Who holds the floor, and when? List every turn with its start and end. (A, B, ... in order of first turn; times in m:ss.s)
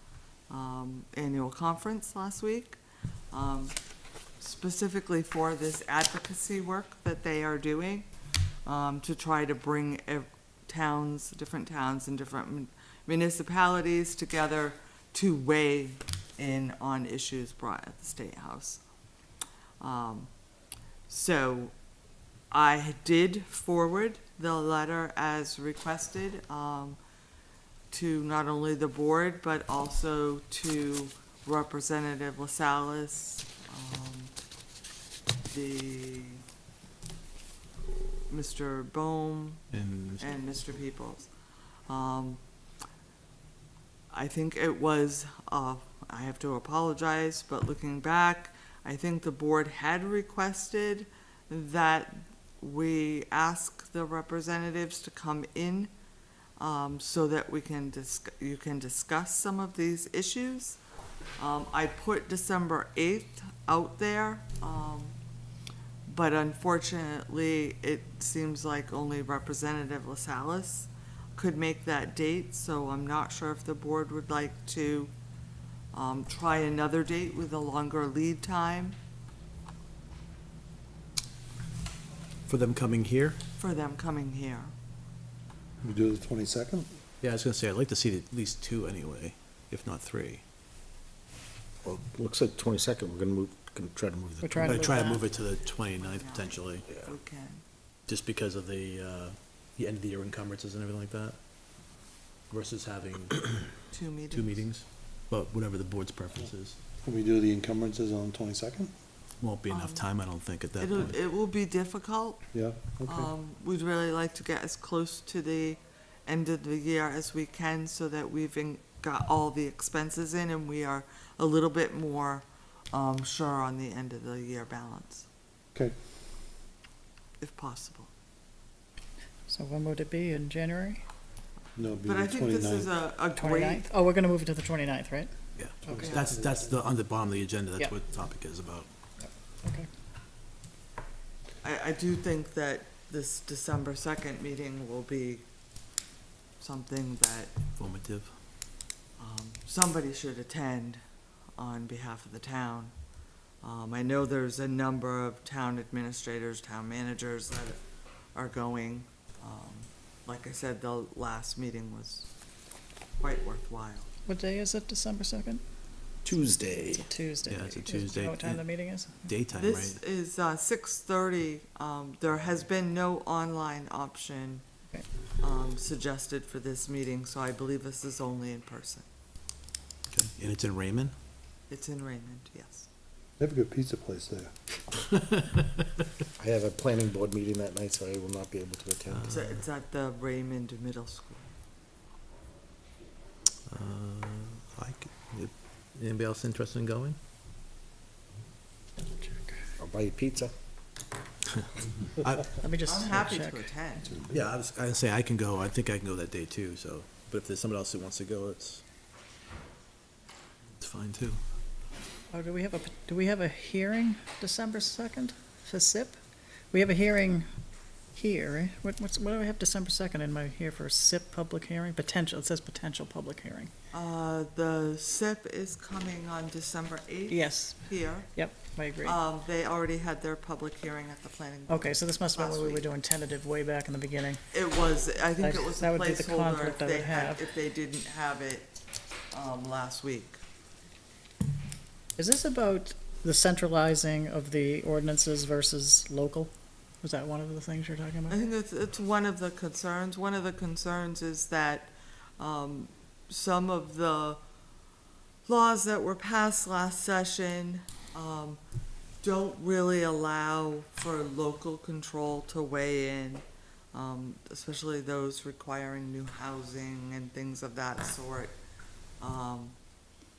0:00.5-0:02.8 A
0:03.3-0:03.8 A
0:04.4-0:08.1 A
0:08.6-0:18.8 A
0:19.8-0:20.3 A
0:21.1-0:21.7 A
0:22.5-0:27.0 A
0:27.9-0:34.3 A
0:35.4-0:36.4 A
0:38.3-0:41.3 A
0:39.7-0:40.2 B
0:41.9-0:42.4 A
0:44.1-0:55.9 A
0:56.6-1:00.8 A
1:01.4-1:05.1 A
1:06.0-1:15.1 A
1:15.9-1:19.0 A
1:22.4-1:23.4 B
1:23.6-1:24.7 A
1:25.8-1:26.9 C
1:27.2-1:30.4 B
1:31.8-1:34.8 D
1:34.4-1:35.3 E
1:34.6-1:36.9 B
1:36.0-1:37.6 A
1:38.1-1:41.4 B
1:42.5-1:43.8 B
1:43.9-1:44.6 A
1:44.3-1:46.8 B
1:47.0-1:48.9 C
1:49.4-1:51.2 B
1:49.7-1:50.1 A
1:50.8-2:05.3 A
1:52.5-1:53.3 C
2:07.4-2:08.1 A
2:09.5-2:11.0 E
2:11.8-2:12.9 C
2:12.0-2:13.8 A
2:13.3-2:15.3 E
2:15.6-2:18.9 B
2:15.8-2:16.2 E
2:15.9-2:16.7 C
2:16.0-2:16.3 A
2:19.2-2:19.9 E
2:21.6-2:25.4 A
2:26.6-2:27.5 A
2:27.8-2:28.4 B
2:29.2-2:31.0 A
2:31.6-2:32.9 A
2:33.6-2:37.8 A
2:38.3-2:42.3 A
2:43.2-2:44.1 A
2:44.3-2:45.6 E
2:46.2-2:48.7 B
2:46.9-2:49.3 E
2:49.2-2:50.0 B
2:49.5-2:54.6 A
2:55.4-2:59.0 A
3:00.1-3:01.1 B
3:01.7-3:02.9 A
3:03.4-3:04.5 C
3:04.9-3:05.8 B
3:06.4-3:09.5 D
3:09.3-3:11.5 A
3:13.7-3:17.2 B
3:19.0-3:19.6 E
3:19.8-3:20.5 D
3:22.2-3:22.5 B
3:22.6-3:23.7 E
3:22.8-3:24.1 A
3:24.3-3:28.8 B
3:30.8-3:31.4 B
3:32.3-3:36.2 E
3:36.7-3:37.5 E
3:38.1-3:43.7 E
3:43.9-3:48.3 A
3:47.3-3:49.2 E
3:49.0-3:52.9 A
3:51.7-3:54.4 E
3:54.5-3:58.7 A
3:55.4-3:57.5 E
3:59.3-4:00.4 A
4:02.2-4:08.4 E
4:08.3-4:14.4 A
4:15.4-4:18.6 A
4:19.2-4:28.5 A
4:29.2-4:29.8 A